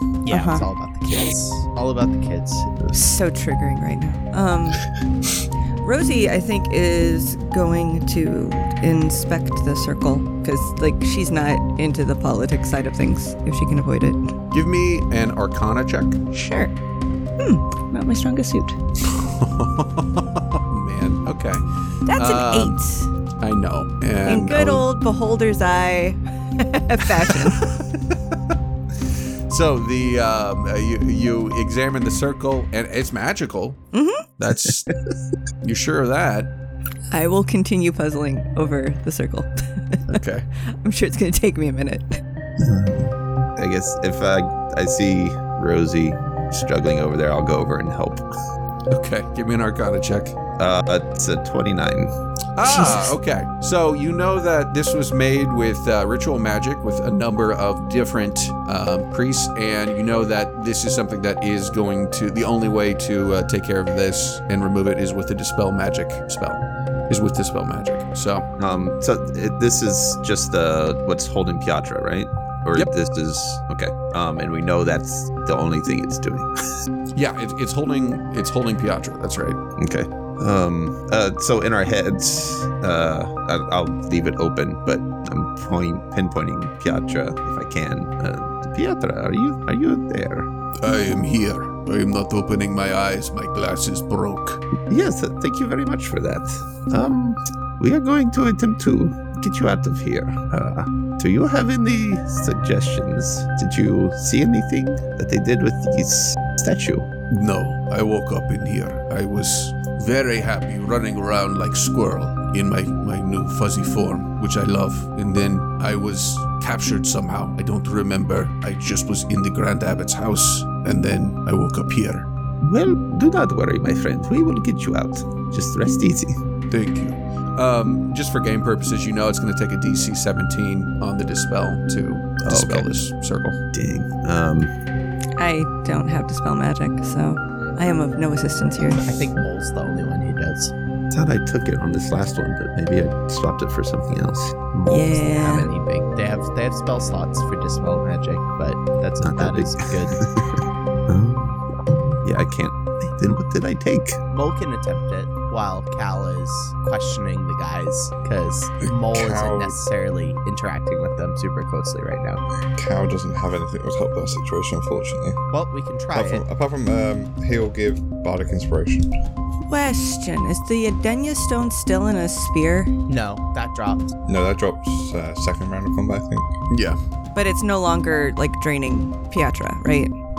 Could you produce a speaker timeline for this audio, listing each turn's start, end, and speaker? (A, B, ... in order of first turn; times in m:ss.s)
0:00.2-0:02.9 A
0:00.3-0:00.6 B
0:02.9-0:04.8 B
0:05.8-0:14.3 B
0:14.5-0:16.2 C
0:16.3-0:16.7 B
0:17.4-0:18.8 B
0:19.0-0:22.8 C
0:22.1-0:23.1 B
0:23.4-0:24.8 C
0:24.2-0:27.7 B
0:29.5-0:33.8 C
0:33.9-0:34.2 B
0:34.4-0:34.9 C
0:35.6-0:36.5 C
0:37.1-0:42.2 B
0:40.1-0:40.4 C
0:42.6-0:48.2 D
0:48.9-0:50.4 C
0:50.6-0:52.1 D
0:52.6-1:08.4 C
0:52.6-0:53.1 D
1:08.6-1:16.5 D
1:17.1-1:19.6 C
1:19.8-1:30.5 D
1:30.8-1:34.6 C
1:34.8-1:47.1 D
1:47.3-2:02.3 C
2:02.6-2:06.4 D
2:06.7-2:13.6 C
2:12.4-2:12.9 D
2:13.7-2:14.7 D
2:15.4-2:19.1 B
2:19.0-2:20.7 A
2:21.1-2:25.2 D
2:24.9-2:25.7 B
2:25.3-2:30.2 A
2:29.2-2:34.2 D
2:34.3-2:42.4 A
2:38.8-2:39.8 E
2:42.8-2:45.4 E
2:45.5-2:46.4 A
2:46.1-2:49.1 E
2:49.7-2:52.9 B
2:53.1-2:54.1 A
2:54.2-2:56.5 E
2:56.7-2:57.0 C
2:57.3-3:00.1 B